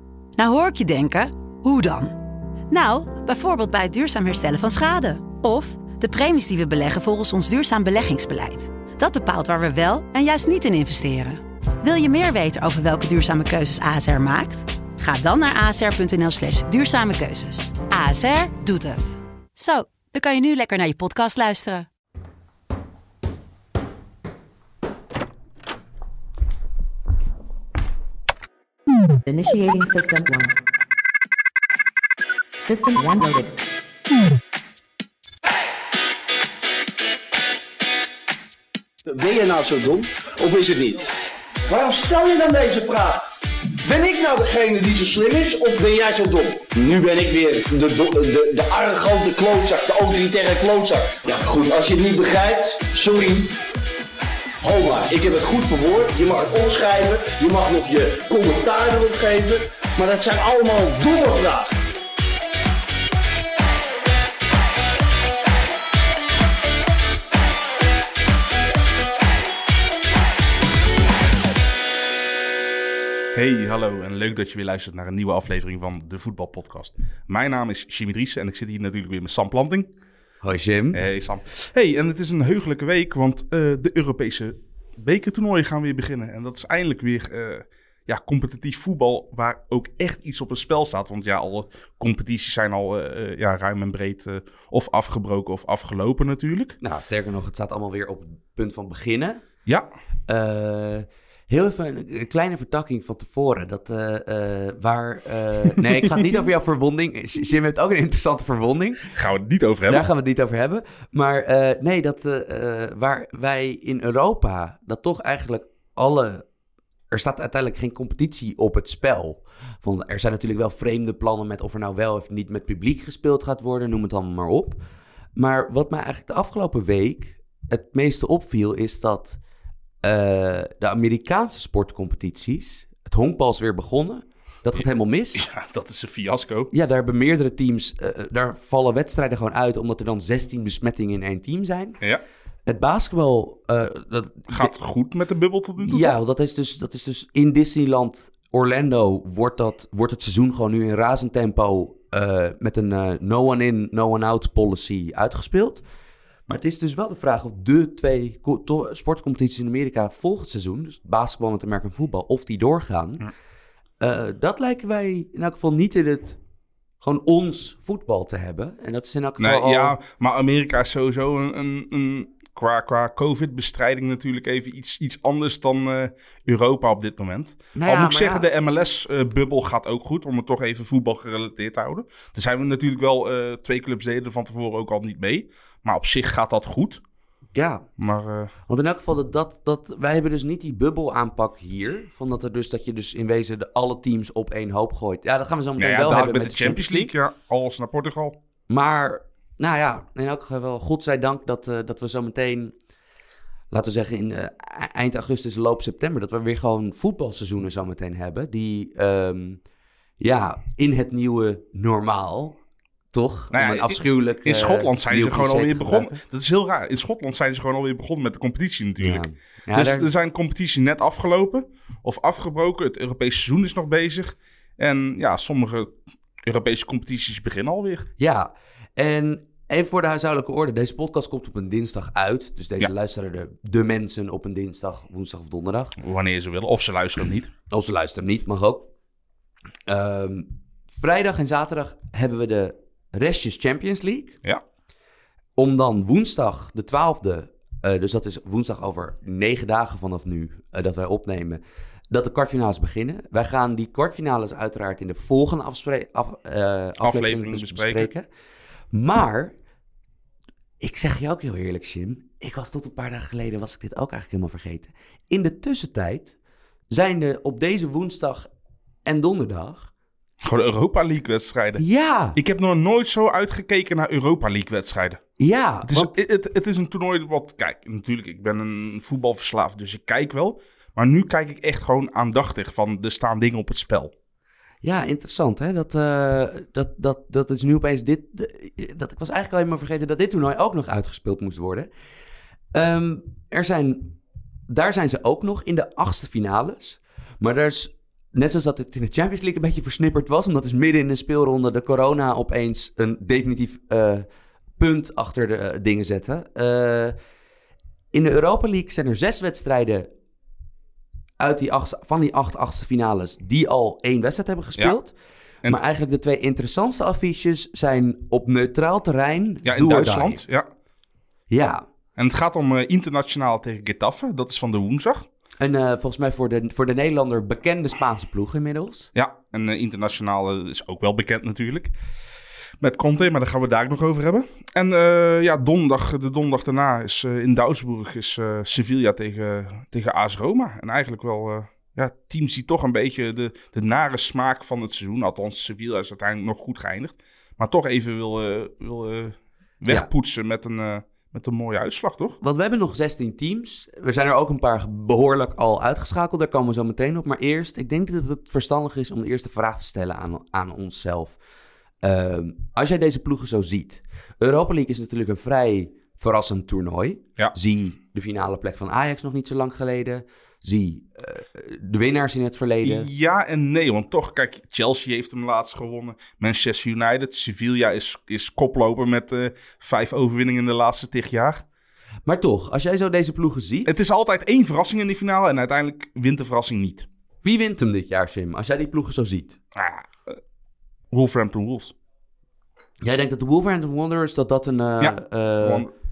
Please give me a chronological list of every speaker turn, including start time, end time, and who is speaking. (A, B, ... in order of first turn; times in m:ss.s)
0:00.4-0:02.2 A
0:02.7-0:21.9 A
0:29.3-0:30.6 B
0:32.6-0:33.6 B
0:39.1-0:41.1 C
0:41.7-0:43.2 C
0:43.8-0:53.6 C
0:54.6-1:01.8 C
1:13.3-1:19.9 D
1:20.4-1:21.0 E
1:20.9-1:36.8 D
1:36.8-1:39.4 E
1:40.3-1:49.2 E
1:45.8-1:46.3 D
1:49.1-1:50.1 D
1:49.9-1:56.4 E
1:57.1-2:04.8 E
2:05.4-2:09.4 E
2:10.0-2:15.5 E
2:15.4-2:16.7 D
2:16.7-2:22.0 E
2:22.7-2:24.8 E
2:24.5-2:26.2 D
2:25.8-2:35.8 E
2:36.5-2:43.3 E
2:44.0-2:46.4 E
2:47.0-2:50.0 E
2:49.4-3:07.0 D
2:57.8-2:58.5 E
3:07.5-3:07.9 E
3:08.0-3:08.5 D
3:08.7-3:17.1 E
3:15.8-3:18.4 D
3:18.7-3:22.7 E
3:23.7-3:29.6 E
3:30.2-3:32.6 E
3:33.1-3:36.2 E
3:33.5-3:48.1 D
3:39.0-3:40.1 E
3:48.2-3:56.0 E
3:56.0-3:57.5 D
3:57.7-3:58.9 E
3:59.9-4:04.4 E
4:05.6-4:18.3 E
4:17.0-4:18.1 D
4:18.9-4:19.6 E
4:20.8-4:26.4 E
4:26.9-4:28.5 E
4:29.0-4:29.9 E
4:30.4-4:31.8 D
4:31.8-4:32.4 E
4:32.4-4:35.2 D
4:35.4-4:36.2 E
4:35.9-4:44.1 D
4:44.8-4:51.9 E
4:52.7-4:54.2 E
4:54.7-5:04.3 E
5:04.8-5:07.2 E
5:08.1-5:10.1 E
5:11.4-5:15.1 E
5:15.6-5:20.4 E
5:19.6-5:20.7 D
5:21.5-5:21.8 E
5:22.2-5:25.3 D
5:25.6-5:29.1 E
5:29.2-5:31.9 D
5:32.8-5:52.4 D
5:52.4-6:01.4 E
6:02.0-6:13.1 E
6:12.8-6:21.6 D
6:22.3-6:23.9 E
6:23.9-6:27.1 D
6:27.4-6:29.6 E
6:29.8-6:30.4 D
6:31.1-6:31.9 D
6:33.0-6:35.9 E
6:35.0-6:35.9 D